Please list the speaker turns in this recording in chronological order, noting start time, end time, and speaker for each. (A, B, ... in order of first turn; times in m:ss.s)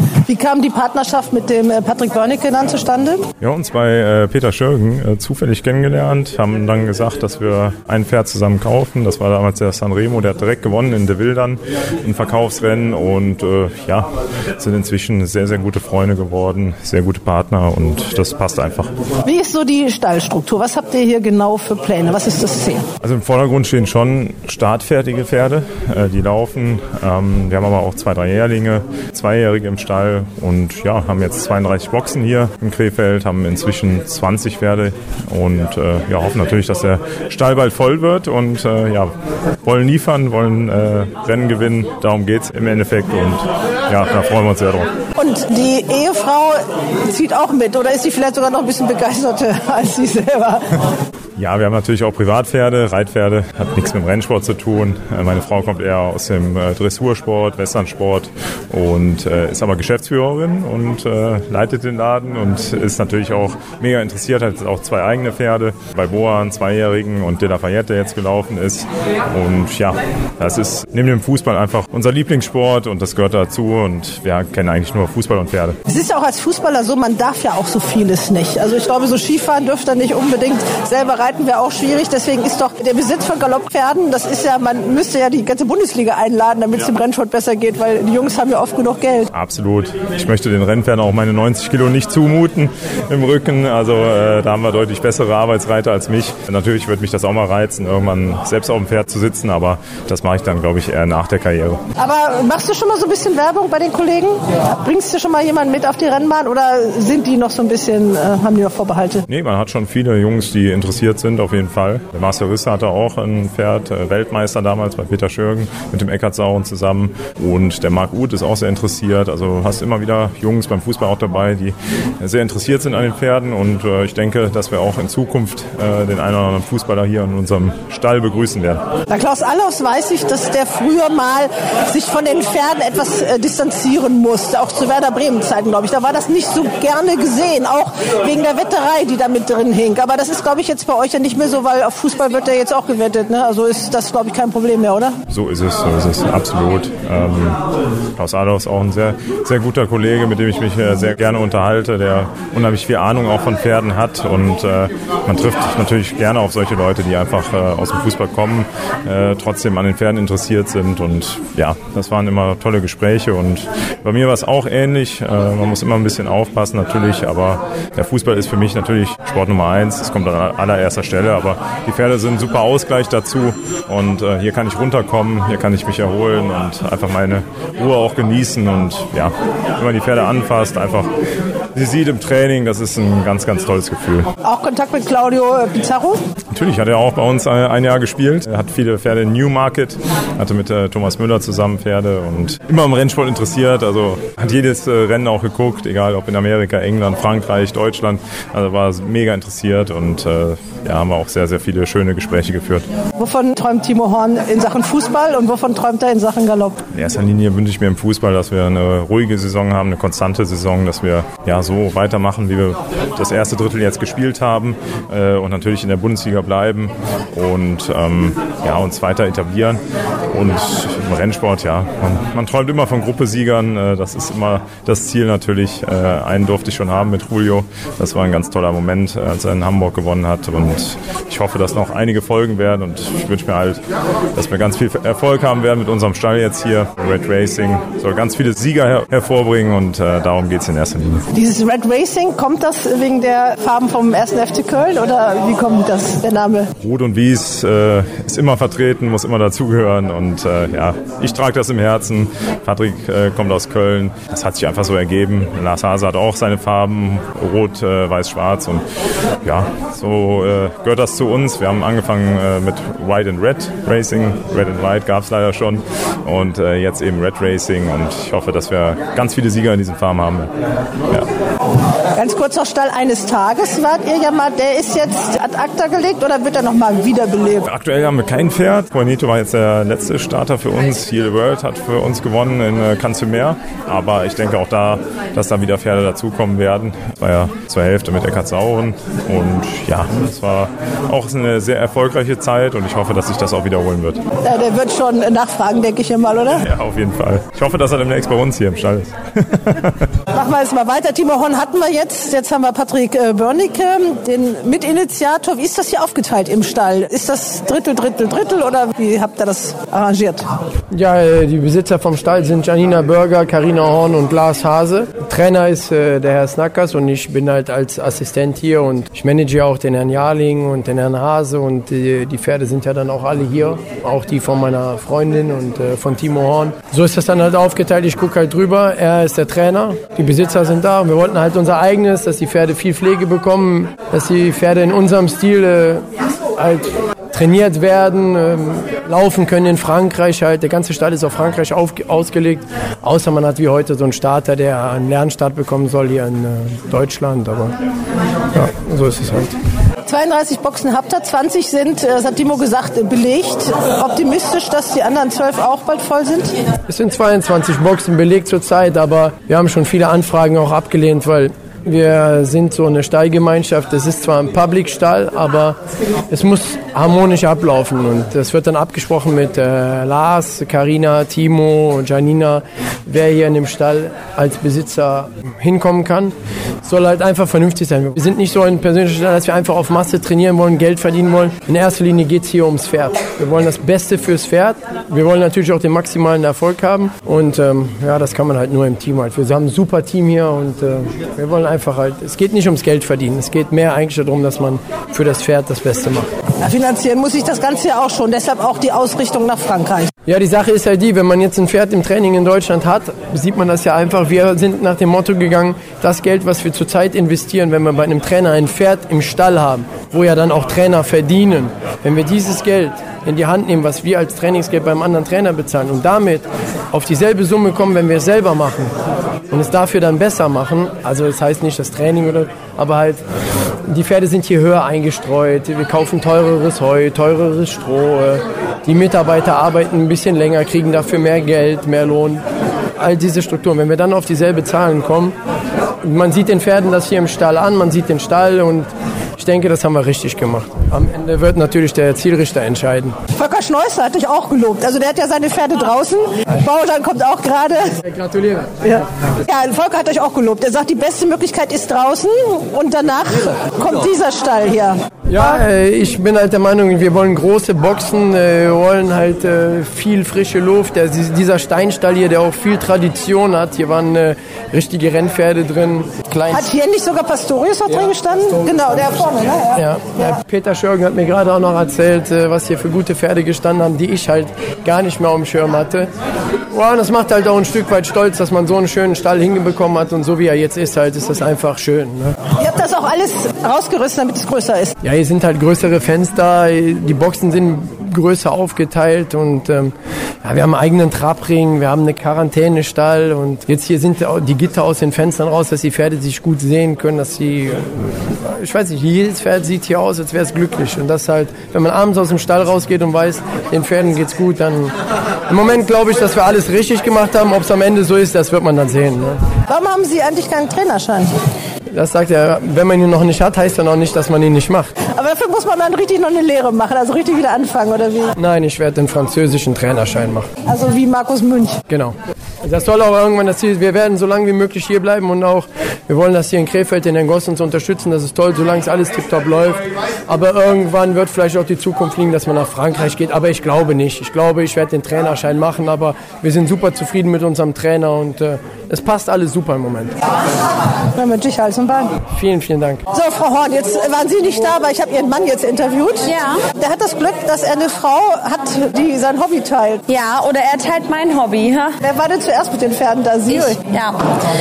0:00.3-0:03.3 A
0:03.4-0:19.0 B
0:19.2-0:22.9 A
0:23.0-0:39.1 B
0:39.6-0:44.9 B
0:45.2-0:50.6 A
0:51.4-1:15.8 B
1:15.9-1:29.3 A
1:29.3-1:41.8 B
1:42.0-1:49.2 A
1:49.3-2:08.8 B
2:09.1-2:25.2 A
2:25.3-2:27.6 B
2:28.2-3:01.1 B
3:01.7-3:04.3 B
3:04.4-3:06.3 A
3:06.5-3:22.9 B
3:23.2-3:26.8 A
3:26.9-4:01.3 B
4:01.3-4:06.7 A
4:06.8-4:18.8 B
4:19.4-4:30.5 B
4:32.2-4:37.7 A
4:37.6-4:54.2 B
4:54.4-4:56.7 A
4:56.6-5:00.0 B
5:00.3-5:10.5 A
5:10.9-5:47.8 C
5:48.5-5:49.6 C
5:50.0-5:56.6 A
5:56.9-6:05.8 C
6:06.3-6:36.3 C
6:36.6-6:40.1 A
6:40.3-6:58.9 C
6:59.5-7:03.2 C
7:03.9-7:12.4 C
7:13.0-7:15.4 C
7:16.0-7:23.2 C
7:23.3-7:28.0 A
7:28.0-7:28.9 C
7:28.8-7:35.6 A
7:35.3-7:46.1 C
7:46.5-7:50.4 A
7:49.8-7:56.1 C
7:56.7-8:02.4 C
8:02.6-8:04.9 A
8:05.0-8:09.9 C
8:10.4-8:25.0 C
8:25.5-8:29.4 C
8:29.7-8:31.3 A
8:31.9-8:34.9 C
8:35.0-8:38.4 A
8:38.4-8:40.5 C
8:40.7-8:41.8 A
8:41.9-9:00.2 C
9:01.1-9:02.2 A
9:02.3-9:03.0 C
9:03.1-9:10.0 A
9:06.2-9:06.6 D
9:10.1-9:12.0 D
9:12.0-9:13.8 A
9:13.5-9:14.2 D